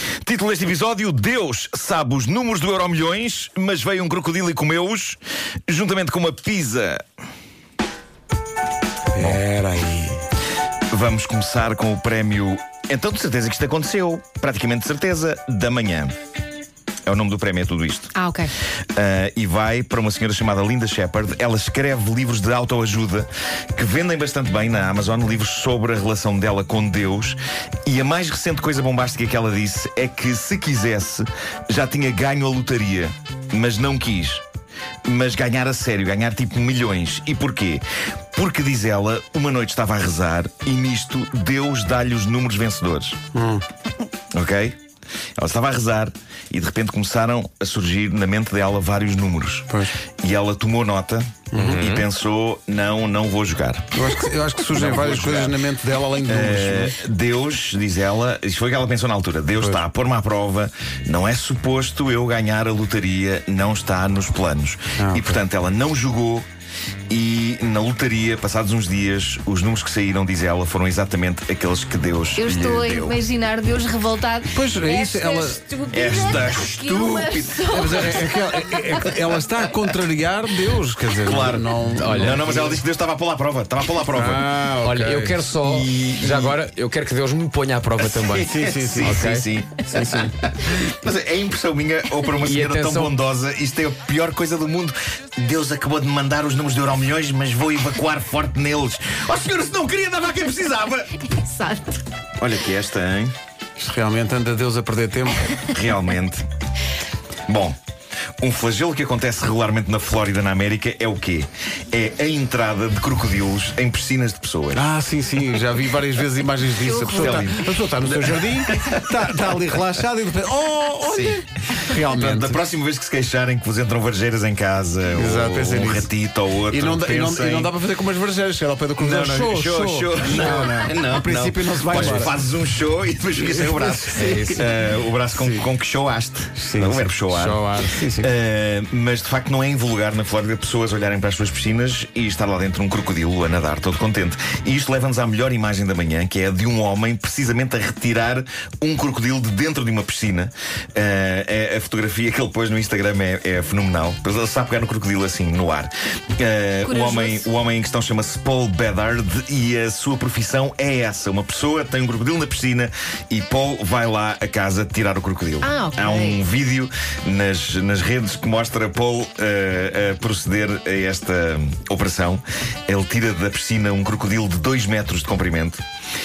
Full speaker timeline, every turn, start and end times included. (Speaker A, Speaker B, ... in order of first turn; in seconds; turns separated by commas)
Speaker A: 0.2-7.0, Speaker B: 9.1-10.2, Speaker A: 10.9-16.1, Speaker A: 17.1-18.1, Speaker C: 18.1-18.5, Speaker A: 18.9-34.4, Speaker A: 35.0-37.8, Speaker A: 38.3-43.2, Speaker B: 43.3-43.6, Speaker A: 44.3-44.8, Speaker A: 45.4-49.7, Speaker B: 49.7-49.9, Speaker A: 50.2-54.2, Speaker B: 51.5-51.9, Speaker D: 51.5-52.1, Speaker B: 53.9-57.0, Speaker A: 54.7-55.6, Speaker A: 56.2-66.5, Speaker B: 65.0-65.4, Speaker A: 67.1-73.2, Speaker C: 72.3-78.3, Speaker B: 74.5-75.6, Speaker A: 75.9-79.0, Speaker B: 77.7-82.8, Speaker A: 81.1-84.5, Speaker D: 81.8-82.5, Speaker B: 84.1-85.5, Speaker D: 84.6-89.5, Speaker A: 85.6-86.6, Speaker A: 88.2-101.2, Speaker B: 88.3-89.2, Speaker D: 92.3-93.1, Speaker C: 101.3-102.0, Speaker A: 102.4-103.3, Speaker B: 103.8-105.6, Speaker A: 105.6-106.4, Speaker A: 107.5-107.8, Speaker A: 108.4-114.9, Speaker B: 114.7-122.6, Speaker C: 116.7-117.5, Speaker A: 117.1-119.3, Speaker A: 121.0-127.7, Speaker B: 125.1-126.1, Speaker B: 126.7-132.4, Speaker A: 129.0-175.8, Speaker D: 131.9-132.3, Speaker B: 133.3-134.7, Speaker D: 134.2-134.7, Speaker B: 135.3-135.7, Speaker B: 136.6-138.3, Speaker C: 156.8-157.5, Speaker C: 165.6-166.4